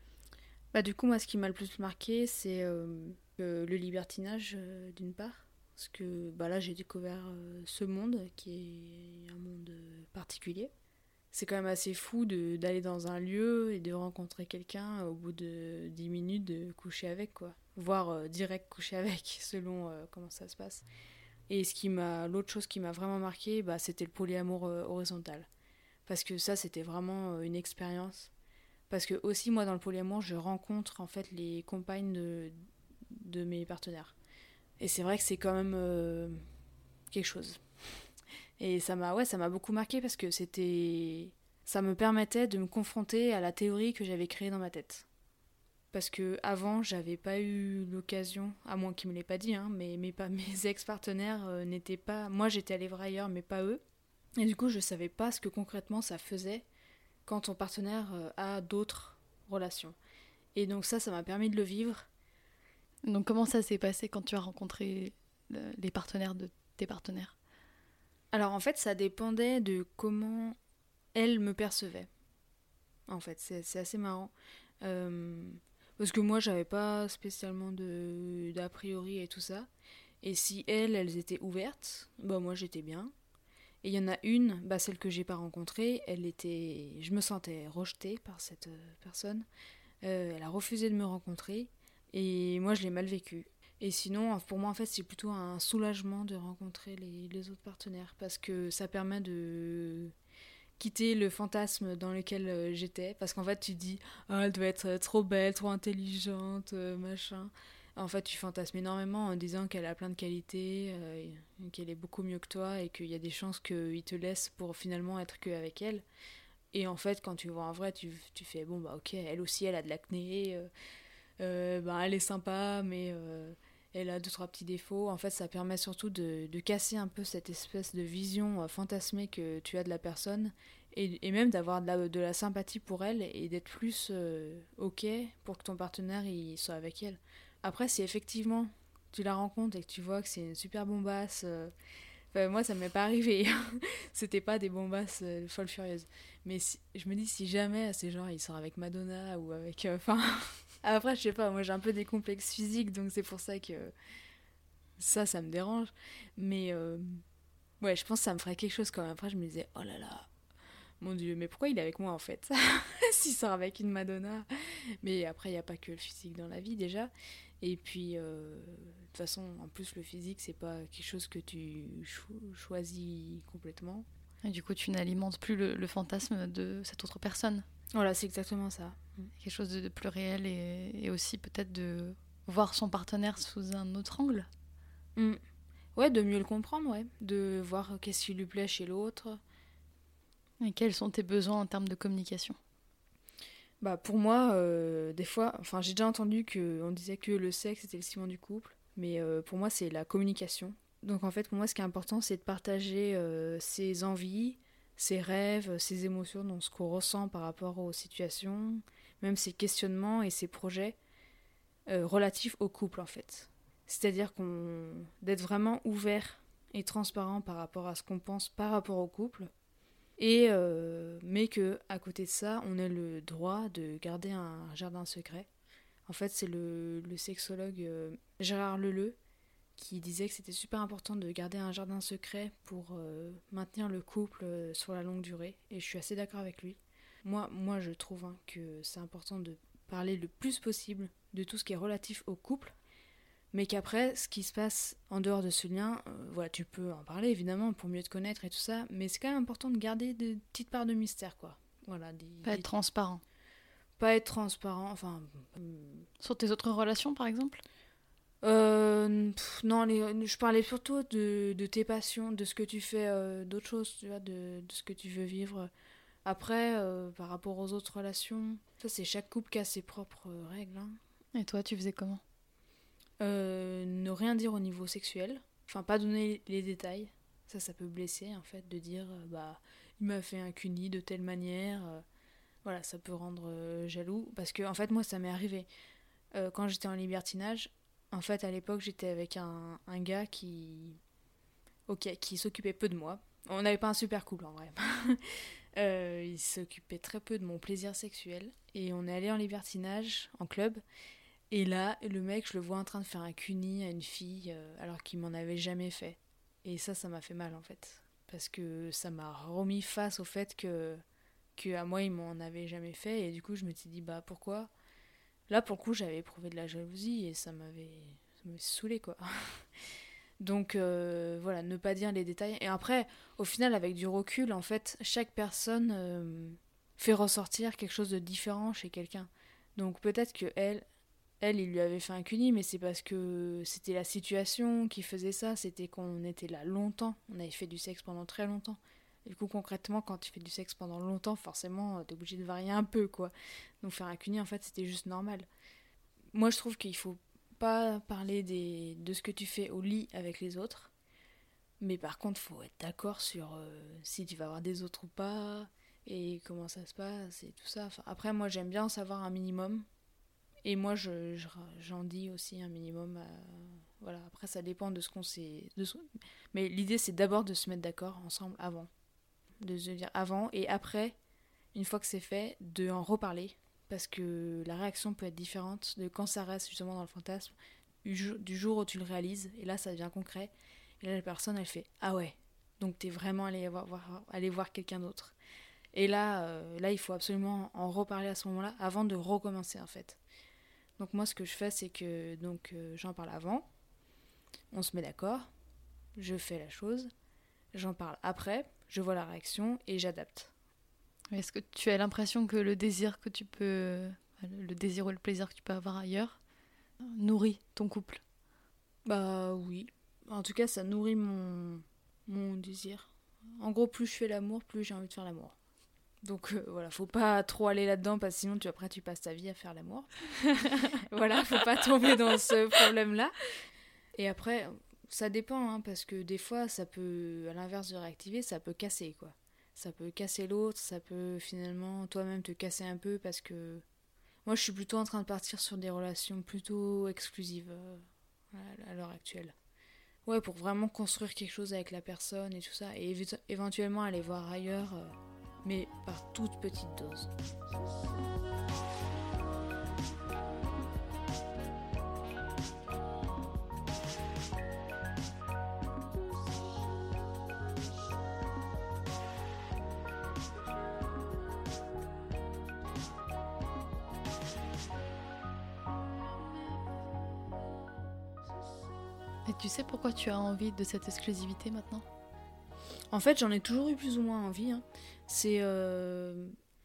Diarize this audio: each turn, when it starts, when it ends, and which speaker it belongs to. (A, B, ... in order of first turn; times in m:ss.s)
0:00.7-0:10.7 A
0:11.3-0:20.8 A
0:21.5-0:25.5 A
0:26.1-0:28.3 A
0:28.9-0:32.5 A
0:33.1-0:34.1 A
0:34.8-0:36.4 A
0:37.1-0:37.6 A
0:38.6-0:45.0 A
0:45.9-0:53.8 A
0:54.4-0:56.6 A
0:57.2-1:00.0 A
1:00.5-1:02.1 A
1:03.0-1:07.3 B
1:08.3-1:10.6 A
1:11.1-1:12.1 A
1:13.1-1:19.7 A
1:20.2-1:23.1 A
1:23.8-1:29.4 A
1:30.0-1:40.1 A
1:40.8-1:56.0 A
1:56.7-2:00.7 A
2:01.4-2:21.7 A
2:22.3-2:33.9 A
2:35.0-2:37.2 A
2:37.8-2:40.3 A
2:41.0-2:54.0 A
2:54.4-2:57.6 B
2:57.9-2:59.3 A
2:59.4-3:04.5 B
3:06.0-3:09.4 A
3:10.6-3:12.6 B
3:13.8-3:31.0 A
3:31.9-3:39.5 A
3:40.2-3:45.5 A
3:46.1-3:49.2 A
3:49.8-4:02.7 A
4:03.5-4:12.7 A
4:12.4-4:13.2 B
4:14.0-4:16.1 A
4:16.2-4:17.6 B
4:18.4-4:25.7 A
4:26.2-4:31.0 A
4:31.3-4:32.2 B
4:33.2-4:42.0 A
4:42.6-4:45.7 A
4:46.3-4:51.0 A
4:51.9-5:00.8 A
5:01.5-5:11.0 A
5:11.6-5:14.7 A
5:15.5-5:19.6 A
5:20.4-5:30.8 A
5:31.4-5:45.5 A
5:46.3-5:50.9 A
5:51.8-5:59.8 A
6:00.6-6:08.9 A
6:09.6-6:11.2 A
6:11.7-6:25.3 A
6:25.9-6:30.2 A
6:31.0-6:33.7 A
6:34.7-6:35.5 A
6:36.2-6:37.1 A
6:37.7-6:40.5 A
6:41.3-6:46.4 B
6:47.0-6:48.2 B
6:49.0-6:55.5 A
6:56.2-7:03.3 A
7:04.1-7:13.8 A
7:14.4-7:19.5 A
7:20.2-7:27.3 A
7:49.4-7:52.0 B
7:53.1-7:56.5 A